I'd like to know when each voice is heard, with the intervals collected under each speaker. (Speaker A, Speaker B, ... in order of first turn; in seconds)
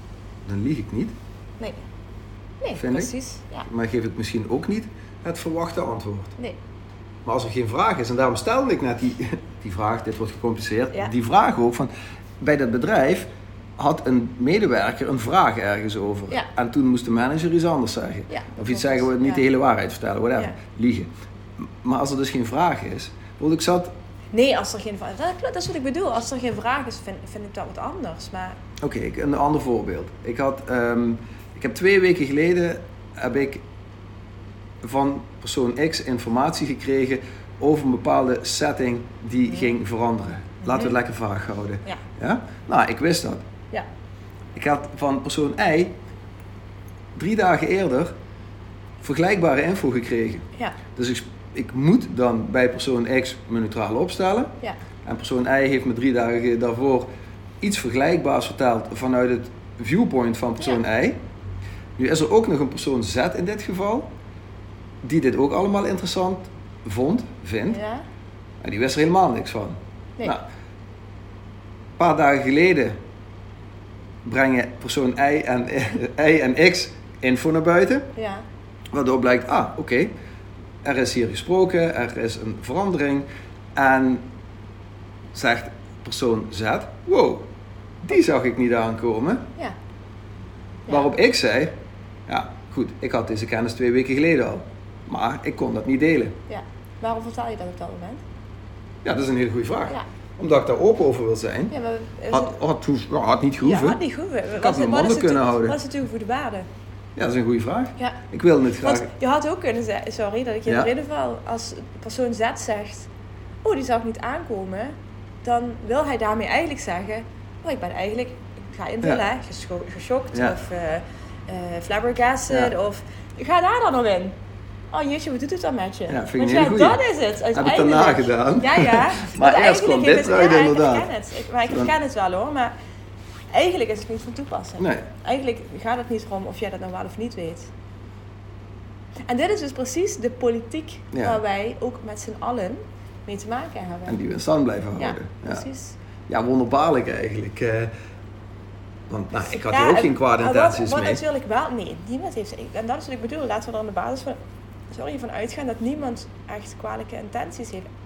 Speaker A: 0.4-1.1, 2.7-3.1, 3.6-6.3, 7.2-13.2, 13.8-23.9, 28.8-33.6, 34.8-43.5, 44.5-46.0, 47.1-48.1, 49.0-57.1, 57.6-61.2, 62.0-64.1, 65.0-67.8, 68.6-70.4, 72.0-73.0, 74.2-78.1, 78.9-80.1, 80.8-84.3, 85.3-87.5, 88.0-89.5, 90.9-91.7, 92.3-96.4, 99.0-101.7, 102.3-104.0, 104.5-105.8, 107.2-109.1, 110.7-110.9, 122.5-122.7, 126.1-127.0, 127.5-131.1, 131.7-131.9, 134.8-135.1, 141.1-141.4, 144.1-145.7, 146.3-147.9, 149.1-151.2
Speaker B: 2.6-3.7, 18.3-19.4, 24.3-28.6, 40.6-41.0, 67.7-68.0, 78.1-78.4, 96.5-98.2, 101.7-102.5, 103.6-106.7, 108.8-113.1, 113.6-124.3, 124.9-132.7, 133.5-137.7, 139.2-144.2, 145.0-145.9, 149.3-154.4, 154.9-157.9